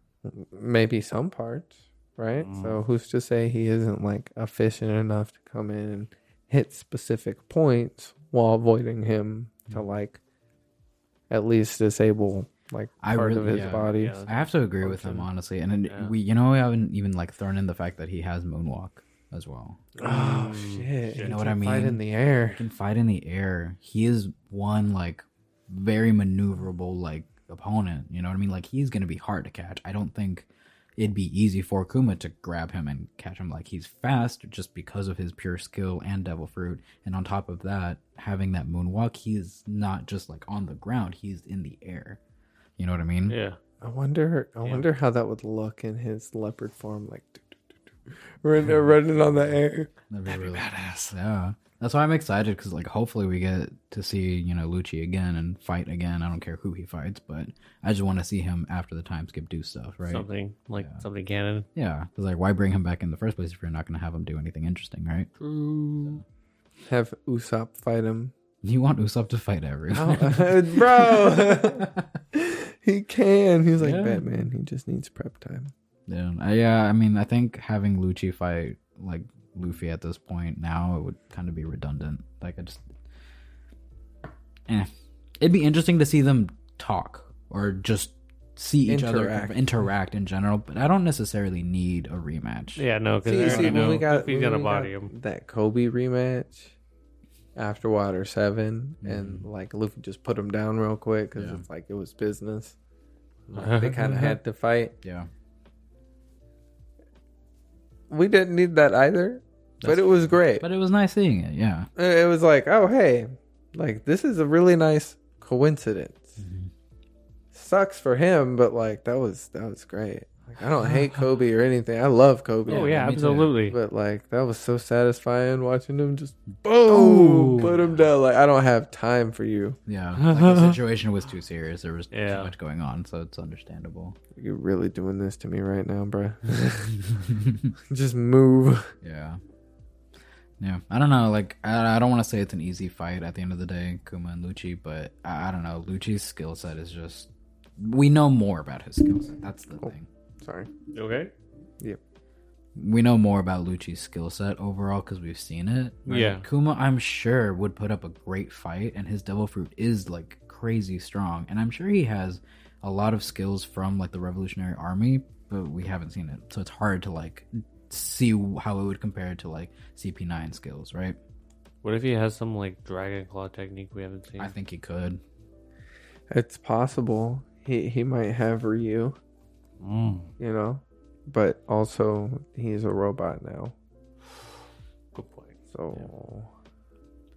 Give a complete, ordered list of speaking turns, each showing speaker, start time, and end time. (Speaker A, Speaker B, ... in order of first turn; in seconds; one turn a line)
Speaker A: 0.2-10.2
Speaker B: 2.4-2.8
Speaker A: 11.3-14.2
Speaker C: 13.0-19.9
Speaker B: 13.5-14.3
Speaker A: 14.8-15.3
Speaker A: 20.0-22.6
Speaker B: 20.0-21.4
Speaker C: 21.2-42.2
Speaker C: 42.8-43.4
Speaker B: 43.3-43.6
Speaker A: 43.8-47.6
Speaker A: 48.4-49.9
Speaker C: 50.1-60.3
Speaker B: 50.3-51.1
Speaker B: 60.1-61.7
Speaker C: 60.8-61.0
Speaker C: 61.8-65.3
Speaker B: 65.4-66.2
Speaker A: 66.9-68.3
Speaker C: 68.6-72.1
Speaker A: 69.9-75.7
Speaker C: 73.8-74.3
Speaker C: 76.1-82.9
Speaker C: 84.7-94.0
Speaker A: 88.9-89.7
Speaker B: 92.8-95.1
Speaker A: 93.3-96.8
Speaker A: 97.6-102.8
Speaker C: 99.0-99.5
Speaker C: 101.4-101.7
Speaker A: 103.5-104.9
Speaker B: 103.5-104.4
Speaker C: 105.0-105.3
Speaker A: 108.1-110.7
Speaker C: 109.8-111.9
Speaker A: 112.0-116.4
Speaker C: 116.4-116.7
Speaker A: 117.5-123.0
Speaker B: 122.7-123.8
Speaker C: 122.7-123.6
Speaker A: 123.7-129.8
Speaker B: 126.9-127.7
Speaker C: 127.6-128.0
Speaker C: 129.9-134.2
Speaker B: 130.2-130.8
Speaker B: 132.1-132.5
Speaker A: 134.4-137.0
Speaker C: 137.2-137.7
Speaker A: 137.9-138.9
Speaker C: 139.0-139.4
Speaker C: 140.6-150.1
Speaker A: 149.8-150.7
Speaker B: 150.9-151.3
Speaker C: 152.8-171.2
Speaker B: 156.1-156.4
Speaker B: 171.8-174.5
Speaker C: 174.4-175.2
Speaker A: 176.3-179.2
Speaker B: 179.8-180.3
Speaker A: 180.4-183.8
Speaker B: 185.2-185.6
Speaker A: 185.7-186.5